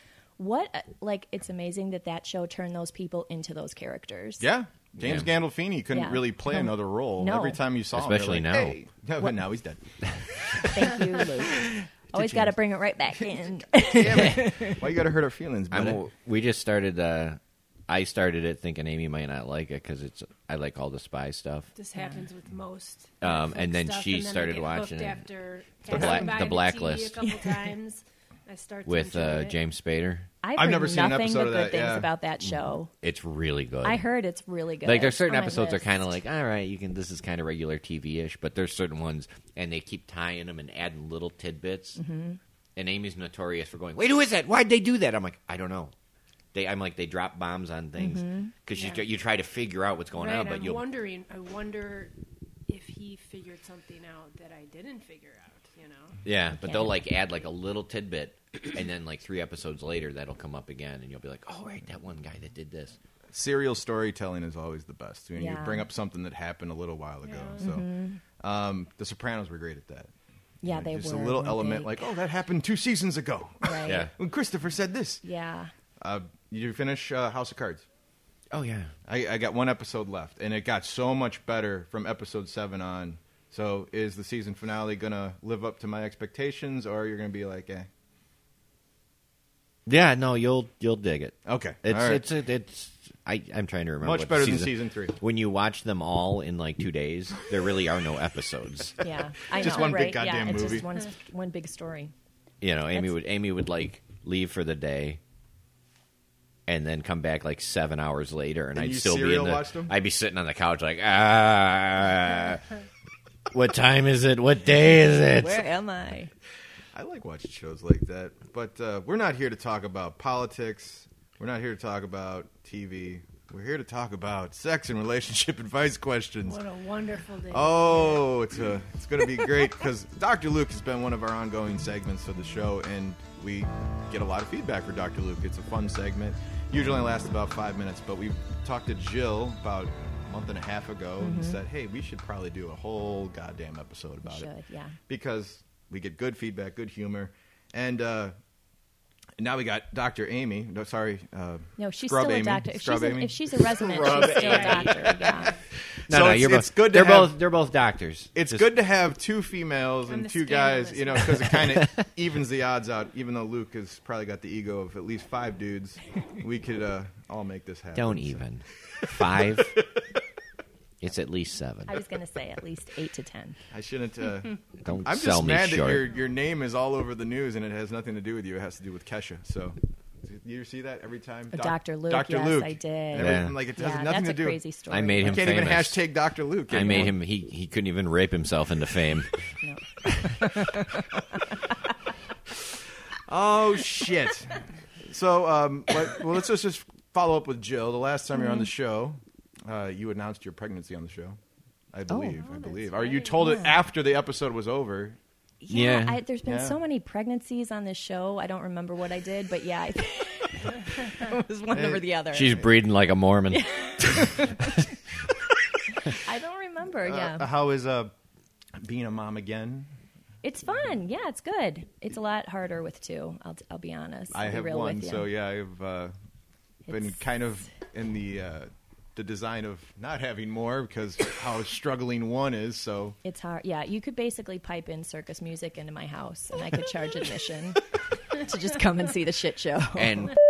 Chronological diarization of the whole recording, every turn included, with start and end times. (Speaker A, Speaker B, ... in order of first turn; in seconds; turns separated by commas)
Speaker A: 0.4-4.5, Speaker B: 4.4-10.7, Speaker C: 5.0-5.3, Speaker A: 5.9-7.6, Speaker C: 7.9-8.8, Speaker A: 10.7-14.8, Speaker C: 12.1-12.5, Speaker B: 13.7-16.0, Speaker C: 14.1-14.7, Speaker C: 15.7-21.7, Speaker D: 21.7-29.6, Speaker A: 21.9-22.2, Speaker C: 23.2-25.2, Speaker C: 25.9-27.2, Speaker B: 25.9-26.3, Speaker C: 28.9-30.3, Speaker A: 30.4-32.9, Speaker B: 30.6-32.1, Speaker C: 33.0-34.0, Speaker A: 33.8-36.0, Speaker C: 34.8-42.0, Speaker A: 42.0-42.4, Speaker C: 42.8-45.9, Speaker C: 46.5-50.9, Speaker A: 48.0-48.5, Speaker D: 48.7-49.0, Speaker D: 50.1-52.1, Speaker D: 52.7-56.2, Speaker C: 56.2-63.0, Speaker A: 56.6-57.0, Speaker B: 63.3-67.9, Speaker A: 65.4-65.9, Speaker D: 67.2-67.6, Speaker A: 67.6-68.2, Speaker B: 68.4-70.1, Speaker A: 70.6-72.0, Speaker B: 70.7-75.2, Speaker A: 73.6-74.1, Speaker C: 73.8-74.1, Speaker A: 75.2-75.7, Speaker B: 76.0-77.8, Speaker C: 78.5-78.9, Speaker B: 79.0-87.9, Speaker C: 89.8-99.0, Speaker B: 91.4-92.2, Speaker B: 94.0-95.2, Speaker A: 99.0-102.1, Speaker B: 99.5-100.9, Speaker C: 102.6-105.2, Speaker C: 106.7-112.7, Speaker B: 108.7-109.9, Speaker C: 113.5-115.7, Speaker A: 115.3-116.3, Speaker B: 116.9-126.6, Speaker D: 126.5-128.3, Speaker B: 127.5-144.5, Speaker A: 141.2-141.6, Speaker A: 144.2-144.9, Speaker B: 145.1-148.3, Speaker B: 149.4-155.1, Speaker A: 151.8-155.5, Speaker C: 153.8-155.0, Speaker D: 154.1-155.6, Speaker B: 156.1-157.3, Speaker C: 156.1-158.7, Speaker B: 158.3-168.4, Speaker D: 160.1-161.7, Speaker C: 167.9-169.8, Speaker B: 169.1-170.0, Speaker C: 171.0-171.9, Speaker A: 171.9-173.6, Speaker B: 173.7-184.6, Speaker C: 174.8-176.1, Speaker A: 181.5-185.6, Speaker C: 183.2-183.6, Speaker C: 184.9-186.1, Speaker B: 185.2-187.2, Speaker C: 186.7-189.3, Speaker A: 186.8-187.1, Speaker A: 189.6-191.9, Speaker B: 193.2-201.4, Speaker A: 198.3-198.7, Speaker B: 201.9-205.2, Speaker A: 202.1-202.4, Speaker D: 202.3-203.6, Speaker A: 203.4-203.7, Speaker A: 205.6-212.6, Speaker C: 205.7-206.2, Speaker B: 206.4-206.8, Speaker B: 211.7-212.1, Speaker C: 212.3-213.7, Speaker A: 213.5-214.8, Speaker A: 216.0-217.5, Speaker B: 217.0-218.1, Speaker B: 218.8-219.9, Speaker A: 220.4-225.3, Speaker B: 224.3-226.1, Speaker A: 226.9-227.2, Speaker B: 226.9-233.2, Speaker A: 233.2-240.3, Speaker C: 239.9-240.3